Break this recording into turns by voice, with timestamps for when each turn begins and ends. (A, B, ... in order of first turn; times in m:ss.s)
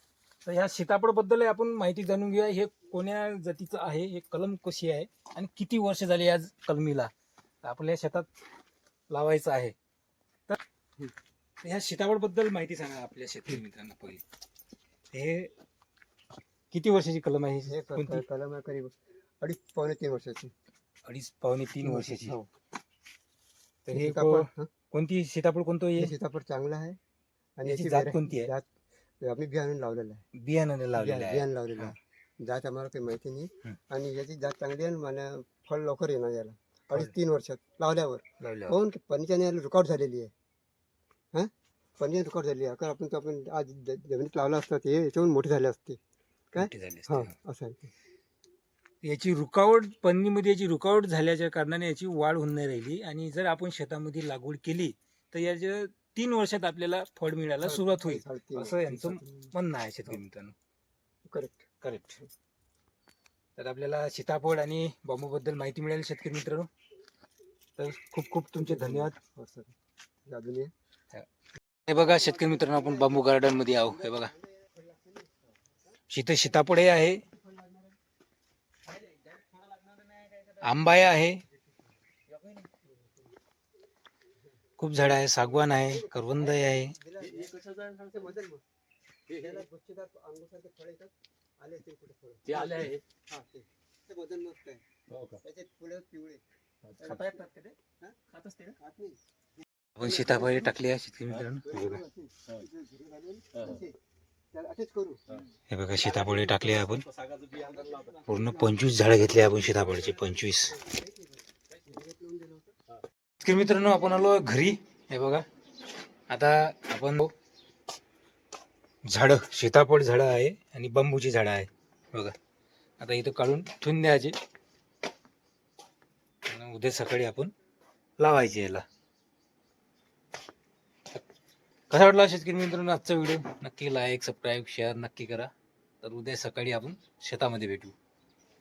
0:00.4-0:07.1 A
0:07.6-0:08.3 A
0:09.1-0:09.8 A
0:11.6-0:14.2 A
0:15.1-0:15.5 A
0:16.7-0:18.2 A
0:17.7-0:20.5 B
0:21.1-0:22.4 A
0:21.8-0:22.5 B
0:23.9-0:26.2 A
0:23.9-0:24.7 B
0:26.0-0:27.0 B
0:27.6-0:28.6 B
0:27.6-0:28.5 A
0:29.2-0:30.2 B
0:30.4-0:32.0 A
0:31.0-0:40.3 B
0:38.4-0:38.8 A
0:41.3-0:46.0 B
0:46.5-0:47.9 B
0:46.6-0:47.3 A
0:49.0-1:00.6 A
0:57.6-0:59.5 B
1:01.3-1:01.7 B
1:01.8-1:02.2 A
1:03.6-1:06.7 A
1:07.8-1:09.2 A
1:08.6-1:09.7 B
1:10.3-1:10.7 B
1:11.9-1:14.3 A
1:12.1-1:15.8 B
1:16.1-1:17.2 A
1:17.3-1:17.9 B
1:18.9-1:20.6 C
1:20.6-1:21.4 A
1:22.3-1:22.7 C
1:22.9-1:23.2 B
1:24.8-1:27.0 A
1:25.9-1:28.6 B
1:27.2-1:28.2 C
1:29.3-1:34.8 B
1:32.5-1:33.0 C
1:35.4-1:36.4 B
1:37.0-1:37.8 C
1:37.0-1:37.5 B
1:38.3-1:38.8 C
1:38.8-1:39.2 B
1:40.0-1:42.0 A
1:40.0-1:40.7 B
1:41.6-1:44.0 B
1:44.5-1:45.2 B
1:45.7-1:47.1 A
1:47.3-1:48.2 C
1:47.9-1:48.7 B
1:48.2-1:50.8 A
1:50.7-1:52.7 B
1:53.4-1:55.4 A
1:56.3-1:57.3 A
1:59.0-2:02.4 A
2:03.0-2:04.4 A
2:06.5-2:07.5 A
2:08.2-2:08.8 A
2:11.9-2:15.5 A
2:16.0-2:18.0 A